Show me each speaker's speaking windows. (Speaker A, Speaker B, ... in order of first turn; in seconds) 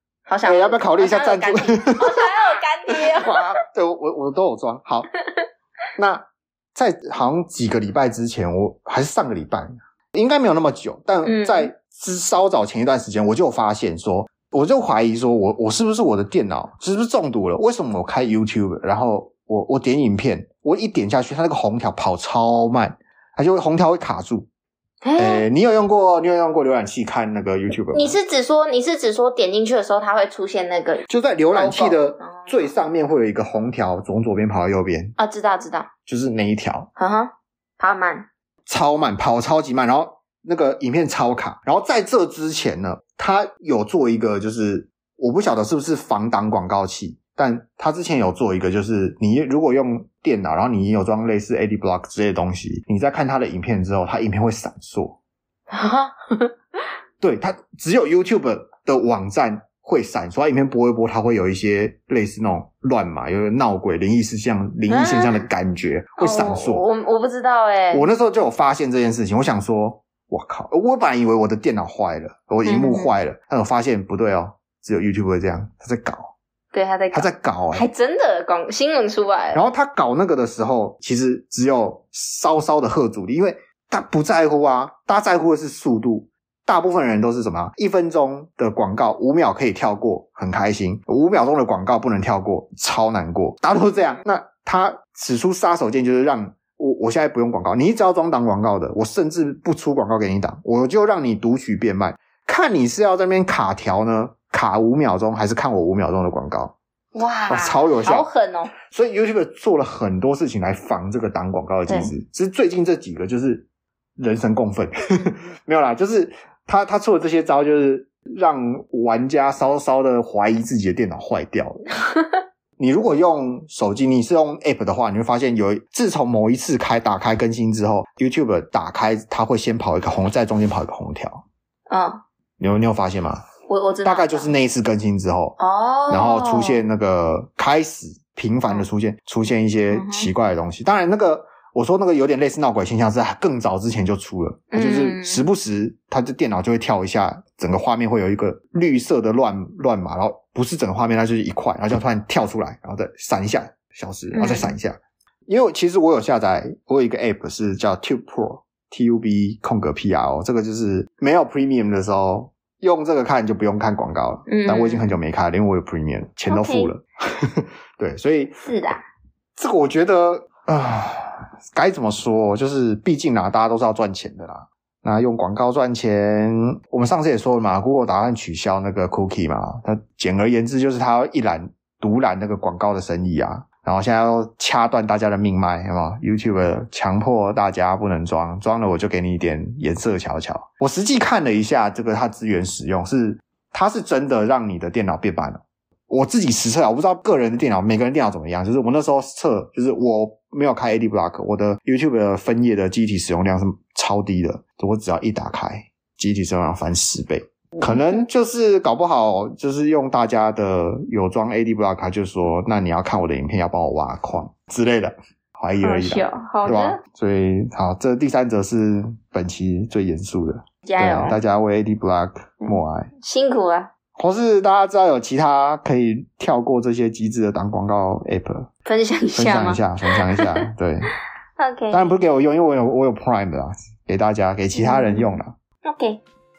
Speaker A: 0.3-3.4, 11.2-11.7, 25.0-25.4, 27.9-32.7, 35.2-35.9, 37.0-38.2, 55.7-56.5, 64.9-65.4, 66.2-68.1, 72.6-73.1, 76.7-79.6, 107.1-108.7, 131.9-132.2, 133.7-134.5, 135.6-136.8, 139.9-140.3, 144.7-145.4, 154.3-154.7, 164.5-165.1, 166.5-166.9, 168.6-169.0, 207.8-208.2, 215.8-217.0, 220.8-221.4, 222.6-223.9, 228.8-230.6, 231.6-232.1, 234.8-235.3, 235.8-236.2
Speaker B: 0.4-5.1, 6.0-24.5, 25.2-28.1, 31.1-35.1, 36.1-36.9, 38.6-55.2, 57.2-66.8, 67.9-76.3, 77.1-77.9, 79.5-106.8, 107.5-108.3, 108.8-113.7, 114.2-121.8, 122.8-131.4, 132.6-133.4, 134.0-135.6, 136.1-168.5, 169.6-223.1, 224.2-228.7, 229.3-231.1, 231.9-235.5